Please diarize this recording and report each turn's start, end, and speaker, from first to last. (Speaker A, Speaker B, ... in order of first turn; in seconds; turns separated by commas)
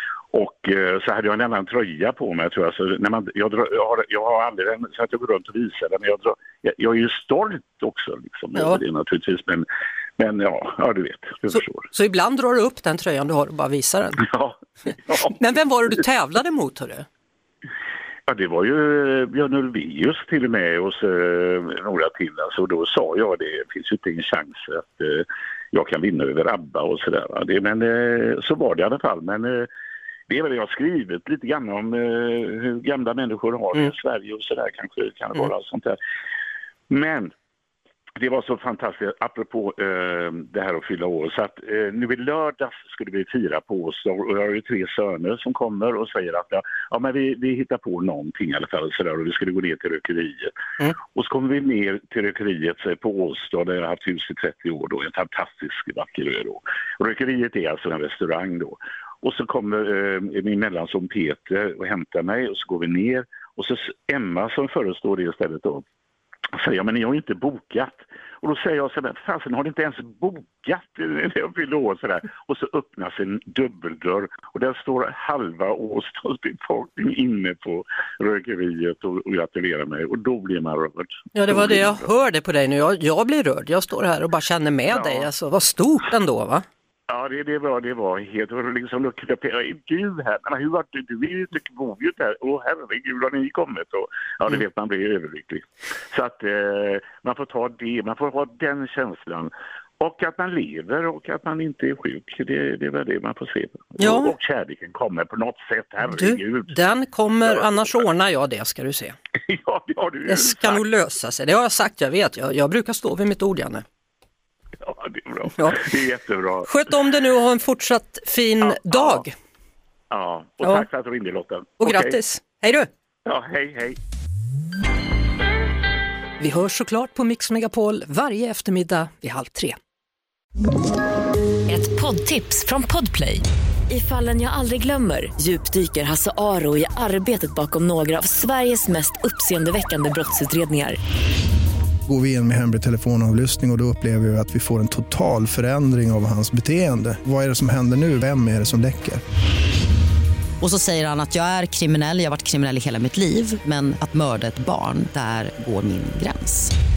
Speaker A: 0.3-9.7, Speaker B: 8.6-8.8, Speaker A: 10.2-11.9, Speaker B: 11.5-14.2, Speaker A: 14.2-15.3, Speaker B: 15.2-17.1, Speaker A: 18.3-29.7, Speaker A: 30.3-36.0, Speaker A: 36.9-37.3, Speaker A: 38.2-50.5, Speaker A: 51.1-65.8, Speaker A: 66.5-82.0, Speaker B: 81.3-86.7, Speaker A: 84.9-85.3, Speaker A: 87.1-106.8, Speaker B: 104.0-104.3, Speaker B: 106.1-109.2, Speaker A: 107.4-108.0, Speaker A: 109.5-110.8, Speaker B: 110.3-113.8, Speaker A: 114.8-116.7, Speaker B: 115.6-115.9, Speaker B: 116.6-119.3, Speaker A: 118.8-119.2, Speaker A: 120.1-122.2, Speaker B: 121.8-122.9, Speaker A: 123.3-124.0, Speaker B: 126.4-129.8, Speaker C: 131.7-141.0, Speaker D: 142.1-149.2, Speaker E: 150.6-156.7